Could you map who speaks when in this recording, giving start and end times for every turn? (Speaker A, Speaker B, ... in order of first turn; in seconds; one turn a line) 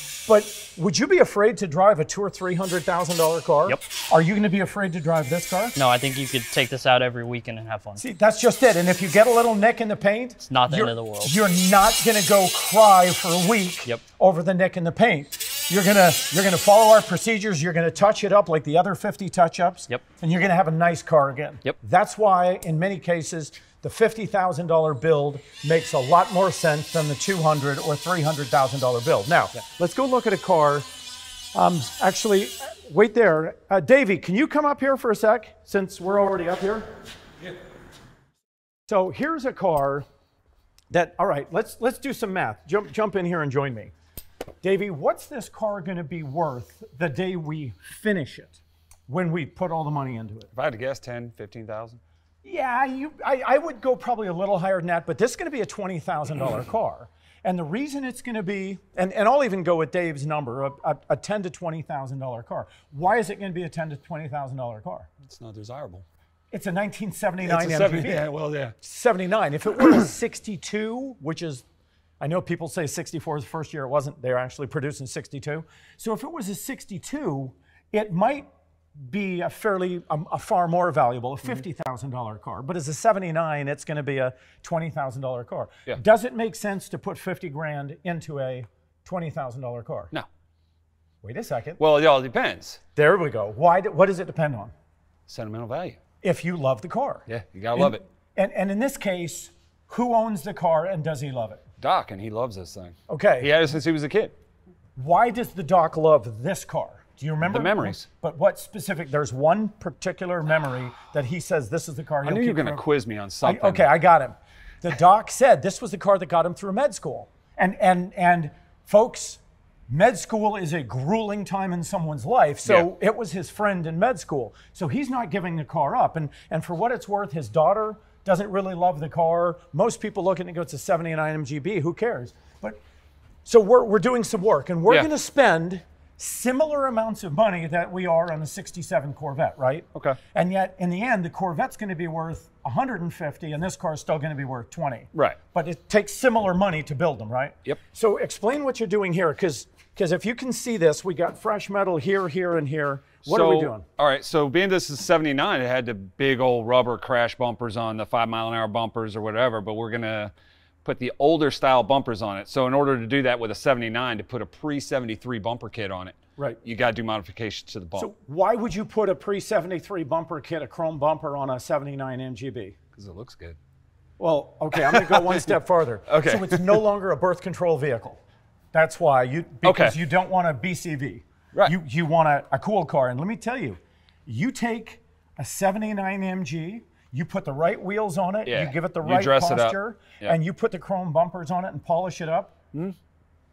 Speaker A: 0.3-5.8
Speaker B: 5.8-8.0
Speaker A: 8.0-30.9
Speaker B: 10.4-11.4
Speaker A: 31.5-36.9
Speaker A: 38.9-40.0
Speaker A: 40.9-43.9
Speaker A: 44.6-50.5
Speaker C: 50.5-52.0
Speaker A: 52.4-65.1
Speaker C: 65.2-66.0
Speaker A: 66.5-71.6
Speaker C: 67.4-68.7
Speaker A: 72.2-90.1
Speaker A: 91.2-91.8
Speaker C: 91.8-92.8
Speaker A: 92.9-94.7
Speaker C: 95.3-96.0
Speaker A: 96.2-101.6
Speaker C: 97.3-98.0
Speaker C: 101.8-104.3
Speaker A: 103.1-103.5
Speaker A: 105.0-112.8
Speaker C: 107.4-108.1
Speaker C: 112.2-113.9
Speaker A: 113.4-132.8
Speaker C: 122.6-122.9
Speaker A: 133.4-153.8
Speaker C: 145.1-145.4
Speaker C: 153.2-160.3
Speaker C: 160.8-168.1
Speaker A: 167.9-172.8
Speaker C: 172.9-173.6
Speaker A: 174.2-178.2
Speaker C: 174.7-175.5
Speaker C: 176.1-176.8
Speaker A: 178.7-192.5
Speaker C: 179.6-180.0
Speaker C: 188.4-190.4